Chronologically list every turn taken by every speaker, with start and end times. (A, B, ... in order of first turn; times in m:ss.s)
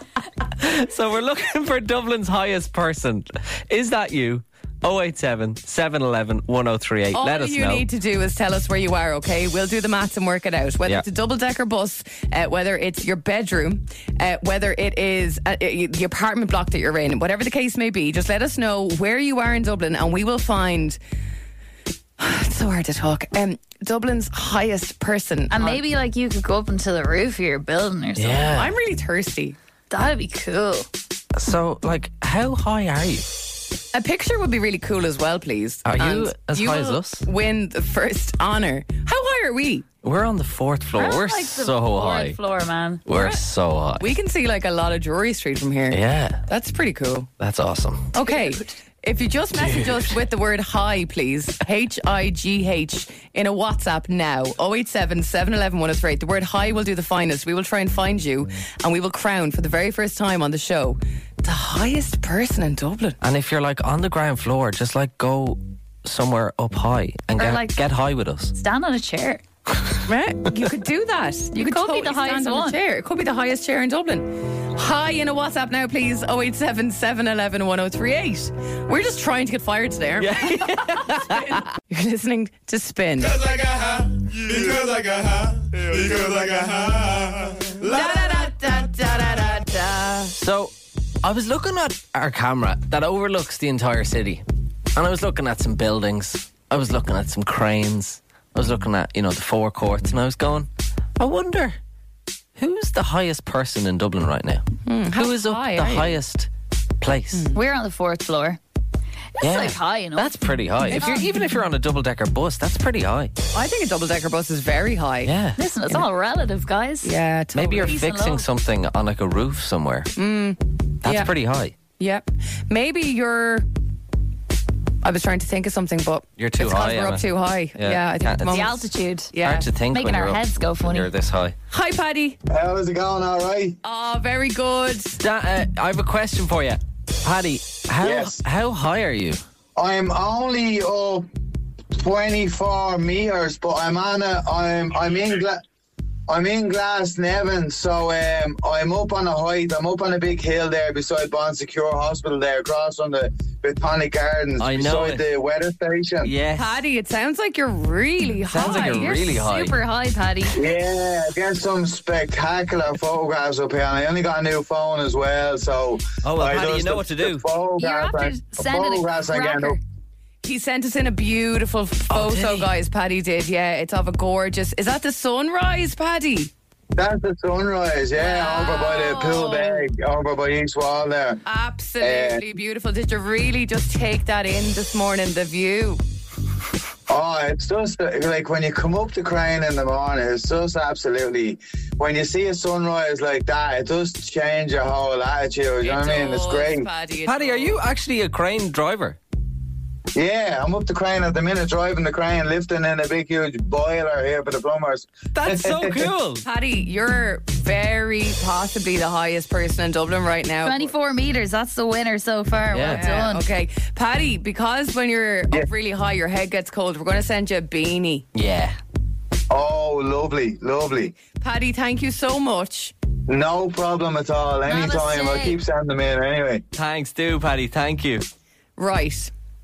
0:00.4-0:07.9 A
0:07.1-0:21.0 B
0:22.2-0:25.8 B
0:25.5-0:28.5 C
0:28.2-0:28.7 A
0:28.4-0:29.6 B
0:29.9-0:30.9 C
0:31.3-0:33.3 A
0:33.9-0:39.8 B
0:35.8-0:37.3 A
0:40.0-0:42.4 A
0:40.9-0:43.1 C
0:43.0-0:44.1 A
0:43.1-0:43.4 B
0:44.0-0:47.3 B
0:45.9-0:46.4 A
0:47.4-0:48.2 A
0:48.1-1:03.2 B
0:49.6-0:50.2 A
1:03.2-1:08.5 A
1:07.4-1:07.8 C
1:08.5-1:09.4 C
1:10.0-1:23.4 B
1:11.5-1:12.8 C
1:20.2-1:21.6 A
1:23.4-1:28.0 D
1:27.8-1:30.3 B
1:30.3-1:41.8 A
1:42.6-1:44.6 A
1:44.8-1:46.2 B
1:45.2-1:47.5 A
1:47.3-1:47.6 B
1:47.5-1:48.6 C
1:49.4-1:50.4 C
1:49.4-1:53.3 A
1:50.9-1:51.2 B
1:50.9-1:51.3 C
1:53.5-1:55.3 B
1:55.2-1:55.6 A
1:55.6-1:57.1 C
1:57.0-1:58.1 B
1:57.5-2:00.1 A
1:57.9-1:58.5 C
2:00.2-2:01.3 B
2:01.0-2:01.8 A
2:02.0-2:03.7 B
2:05.0-2:09.7 B
2:06.4-2:08.7 A
2:08.4-2:09.3 C
2:09.4-2:11.5 A
2:09.9-2:11.1 C
2:11.7-2:12.4 B
2:12.5-2:13.8 E
2:13.8-2:15.2 B
2:15.1-2:19.4 A
2:18.0-2:18.4 E
2:19.8-2:21.3 E
2:21.9-2:25.6 E
2:26.3-2:36.3 E
2:34.6-2:35.2 A
2:36.2-2:36.8 A
2:36.5-2:39.4 B
2:38.5-2:39.8 A
2:38.6-2:40.6 C
2:40.5-2:49.8 E
2:46.2-2:47.4 A
2:47.8-2:49.8 C
2:50.4-2:56.5 B
2:52.1-2:52.7 A
2:57.0-3:01.4 E
2:58.2-2:59.8 B
2:58.2-2:59.7 C
3:01.4-3:06.0 B
3:02.0-3:02.4 E
3:07.1-3:16.9 E
3:15.8-3:17.8 B
3:17.2-3:19.2 A
3:20.1-3:26.1 E
3:25.3-3:26.4 A
3:26.4-3:30.9 B
3:30.6-3:33.5 C
3:32.7-3:33.1 A
3:32.9-3:38.2 B
3:38.3-3:38.8 A
3:39.5-3:41.2 E
3:41.3-3:42.9 B
3:43.3-3:46.6 E
3:44.7-3:45.6 C
3:46.7-3:48.2 A
3:48.8-3:49.3 B